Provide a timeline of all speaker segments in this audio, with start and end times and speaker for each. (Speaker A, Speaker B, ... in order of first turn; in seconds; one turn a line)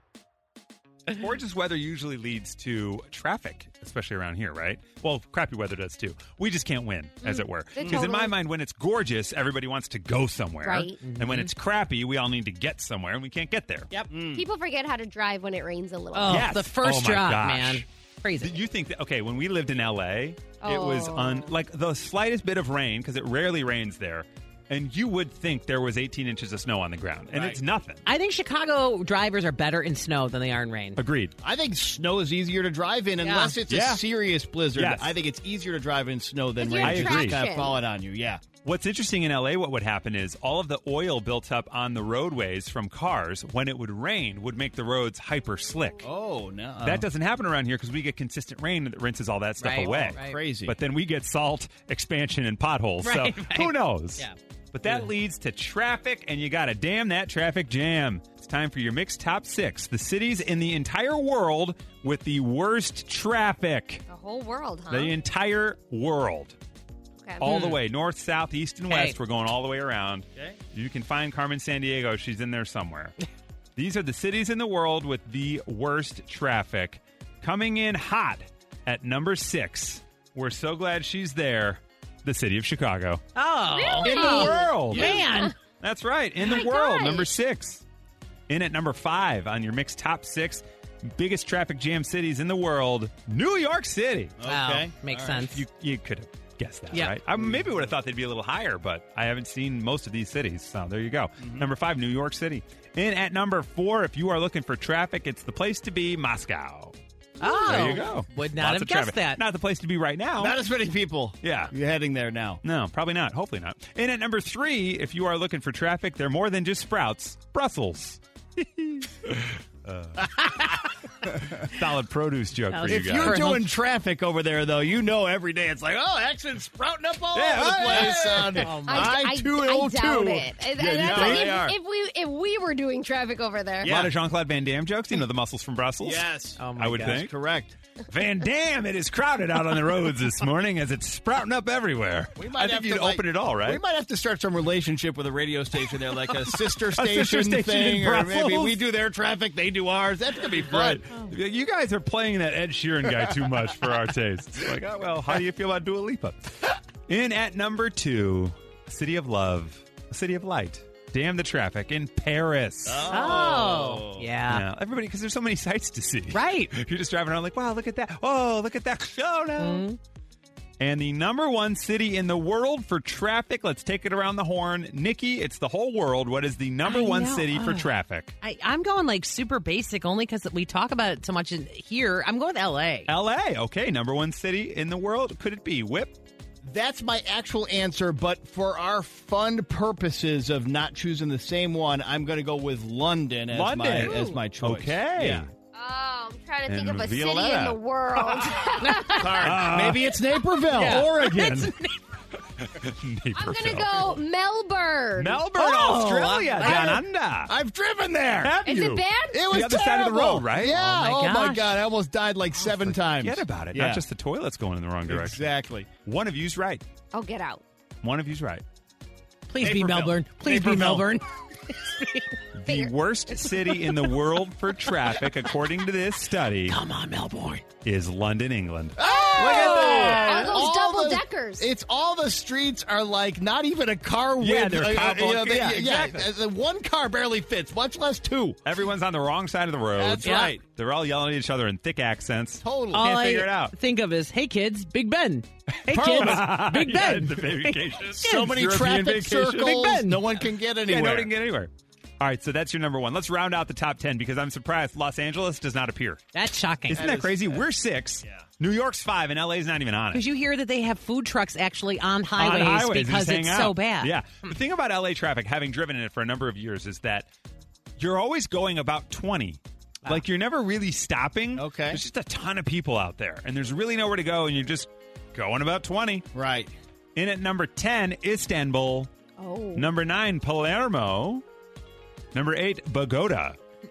Speaker A: 1.1-13.9
Speaker B: 7.2-8.3
Speaker C: 7.8-8.1
Speaker B: 10.6-11.0
Speaker D: 11.0-11.5
Speaker C: 14.1-14.4
Speaker B: 14.3-16.5
Speaker D: 16.1-18.5
Speaker A: 16.3-17.8
Speaker A: 18.4-28.0
Speaker B: 20.6-21.5
Speaker C: 27.3-27.6
Speaker D: 28.1-31.0
Speaker A: 30.9-31.3
Speaker C: 31.4-38.4
Speaker D: 33.2-33.5
Speaker A: 33.7-34.0
Speaker A: 34.7-35.2
Speaker B: 36.6-37.8
Speaker A: 36.8-37.4
Speaker A: 38.6-46.0
Speaker C: 46.0-47.0
Speaker A: 46.8-64.0
Speaker D: 49.6-50.4
Speaker C: 49.8-50.7
Speaker D: 53.0-54.3
Speaker B: 64.1-65.1
Speaker A: 64.9-66.5
Speaker A: 67.4-73.1
Speaker D: 67.4-67.8
Speaker D: 68.9-69.1
Speaker A: 73.8-83.2
Speaker D: 83.3-85.5
Speaker B: 83.7-85.5
Speaker A: 84.0-85.2
Speaker C: 84.9-85.2
Speaker A: 85.8-87.8
Speaker B: 86.4-87.3
Speaker A: 88.5-94.3
Speaker C: 94.4-95.5
Speaker D: 94.5-95.6
Speaker A: 95.5-107.0
Speaker C: 97.4-97.8
Speaker C: 101.4-101.7
Speaker D: 107.4-109.4
Speaker B: 107.4-107.8
Speaker A: 107.6-110.6
Speaker C: 110.4-112.6
Speaker A: 111.4-111.7
Speaker A: 112.6-120.4
Speaker A: 121.4-123.4
Speaker D: 122.7-123.7
Speaker C: 122.9-131.7
Speaker A: 127.3-128.7
Speaker D: 128.6-129.2
Speaker B: 128.9-133.9
Speaker A: 130.8-131.7
Speaker C: 133.8-134.1
Speaker A: 133.8-137.3
Speaker C: 136.0-137.7
Speaker D: 136.6-137.2
Speaker A: 138.1-143.8
Speaker C: 142.4-151.0
Speaker A: 146.9-148.8
Speaker A: 150.6-163.1
Speaker C: 162.8-164.3
Speaker D: 163.1-164.6
Speaker A: 164.5-169.8
Speaker D: 166.3-166.7
Speaker D: 169.6-170.0
Speaker A: 170.8-178.3
Speaker D: 176.8-177.9
Speaker D: 178.4-183.1
Speaker A: 183.1-186.2
Speaker C: 186.6-195.5
Speaker A: 193.5-195.5
Speaker D: 194.0-194.4
Speaker B: 195.7-199.4
Speaker A: 196.7-197.8
Speaker D: 198.8-199.2
Speaker C: 198.9-201.7
Speaker A: 199.4-200.1
Speaker D: 200.7-202.0
Speaker A: 200.8-201.7
Speaker A: 202.6-204.1
Speaker B: 203.4-205.4
Speaker A: 205.2-207.5
Speaker D: 205.5-206.9
Speaker C: 206.6-208.6
Speaker A: 208.4-210.9
Speaker B: 208.6-209.8
Speaker C: 209.3-214.0
Speaker D: 210.8-211.8
Speaker A: 212.6-215.4
Speaker C: 215.1-215.9
Speaker A: 216.0-216.8
Speaker B: 217.1-217.6
Speaker A: 218.0-218.6
Speaker D: 219.5-222.3
Speaker C: 219.6-221.1
Speaker A: 222.5-226.8
Speaker B: 222.7-222.9
Speaker D: 226.7-227.6
Speaker A: 227.8-230.4
Speaker C: 228.9-238.6
Speaker B: 229.0-231.7
Speaker D: 229.6-230.3
Speaker A: 234.4-236.3
Speaker A: 238.6-243.7
Speaker C: 239.9-240.6
Speaker D: 240.2-240.5
Speaker C: 242.6-243.1
Speaker D: 242.9-248.6
Speaker C: 245.9-246.6
Speaker A: 245.9-250.0
Speaker C: 248.0-251.3
Speaker D: 249.6-250.2
Speaker A: 250.8-256.2
Speaker D: 256.3-257.1
Speaker A: 256.9-260.2
Speaker C: 256.9-257.6
Speaker D: 260.1-264.1
Speaker A: 262.4-267.3
Speaker A: 268.0-276.3
Speaker C: 271.5-272.0
Speaker C: 276.3-276.7
Speaker A: 277.1-279.1
Speaker B: 279.4-279.9
Speaker A: 279.7-281.4
Speaker A: 282.3-283.6